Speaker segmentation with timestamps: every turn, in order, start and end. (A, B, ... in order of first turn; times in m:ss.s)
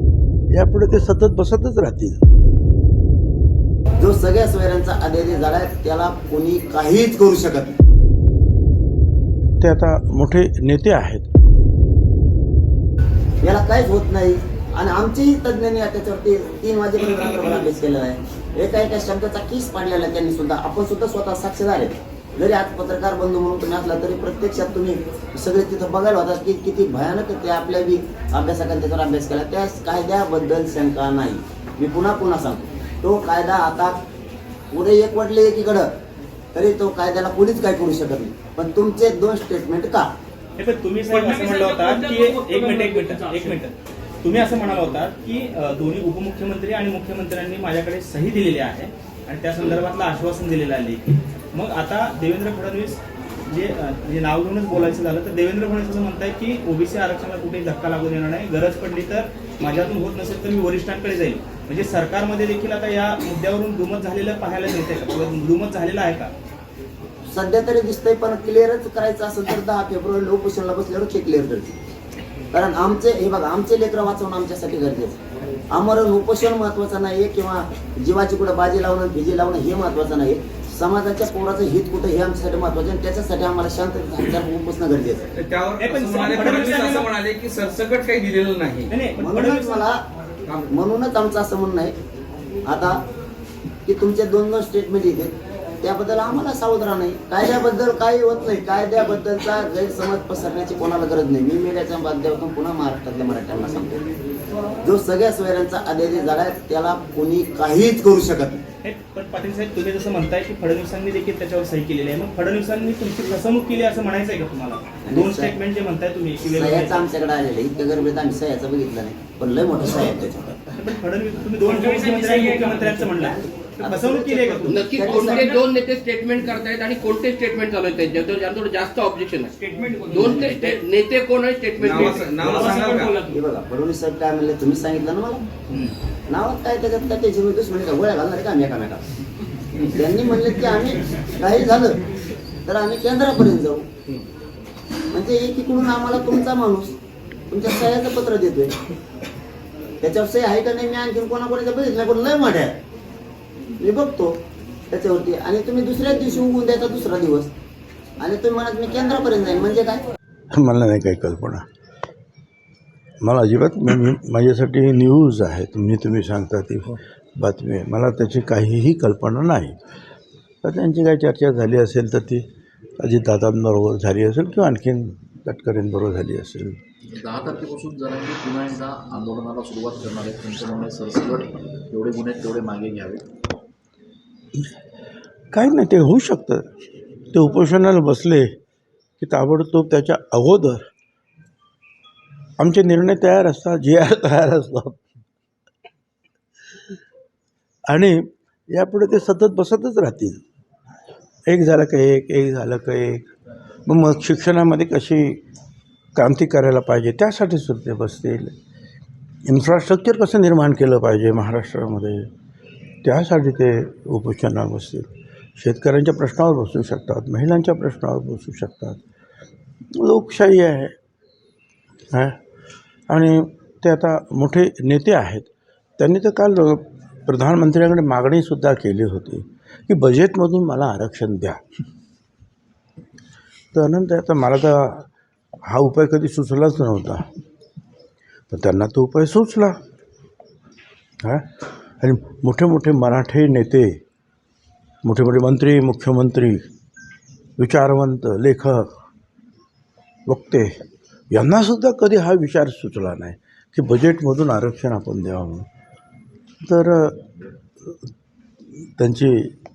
0:00.5-0:02.2 A
0:04.0-0:07.8 B
0:09.6-0:11.3 A
0:13.4-0:34.0 B
0:34.7-0:35.9 B
0:36.5-0:40.1 B
0:40.6-1:06.3 C
1:07.3-1:11.8 B
1:12.5-1:25.3 B
1:25.3-1:28.9 D
1:25.8-1:27.1 C
1:28.9-1:29.9 C
1:29.2-1:30.0 B
1:30.7-1:32.0 B
1:32.7-1:33.0 B
1:33.8-1:44.0 B
1:44.8-1:48.6 B
1:48.8-1:57.0 C
1:55.1-1:55.5 B
1:56.5-2:00.6 B
2:00.8-2:05.2 C
2:02.9-2:05.6 B
2:04.7-2:09.6 E
2:10.1-2:12.8 E
2:11.8-2:13.2 D
2:13.3-2:15.4 B
2:16.3-2:19.0 B
2:19.9-2:22.0 B
2:22.7-2:23.9 B
2:25.1-2:26.9 B
2:27.5-2:28.8 B
2:30.0-2:32.8 B
2:33.8-2:34.4 B
2:34.9-2:37.5 B
2:38.2-2:40.0 B
2:40.5-2:41.6 A
2:43.2-2:49.8 A
2:50.6-2:52.4 A
2:53.0-2:56.8 A
2:57.1-3:03.2 F
3:05.5-3:06.6 A
3:07.3-3:08.5 A
3:09.2-3:10.8 A
3:12.6-3:15.1 A
3:17.9-3:20.4 A
3:21.5-3:23.3 A
3:23.9-3:25.4 A
3:26.2-3:28.5 A
3:29.4-3:32.3 A
3:33.0-3:39.0 A
3:40.0-3:41.0 A
3:42.1-3:42.4 A
3:43.1-3:51.6 A
3:53.7-3:55.1 A
3:55.7-3:57.2 A
3:58.5-3:59.8 A
4:01.2-4:04.0 A
4:05.0-4:06.6 A
4:07.6-4:08.9 A
4:10.3-4:10.7 A
4:11.3-4:15.7 A
4:16.6-4:17.3 A
4:18.7-4:19.5 A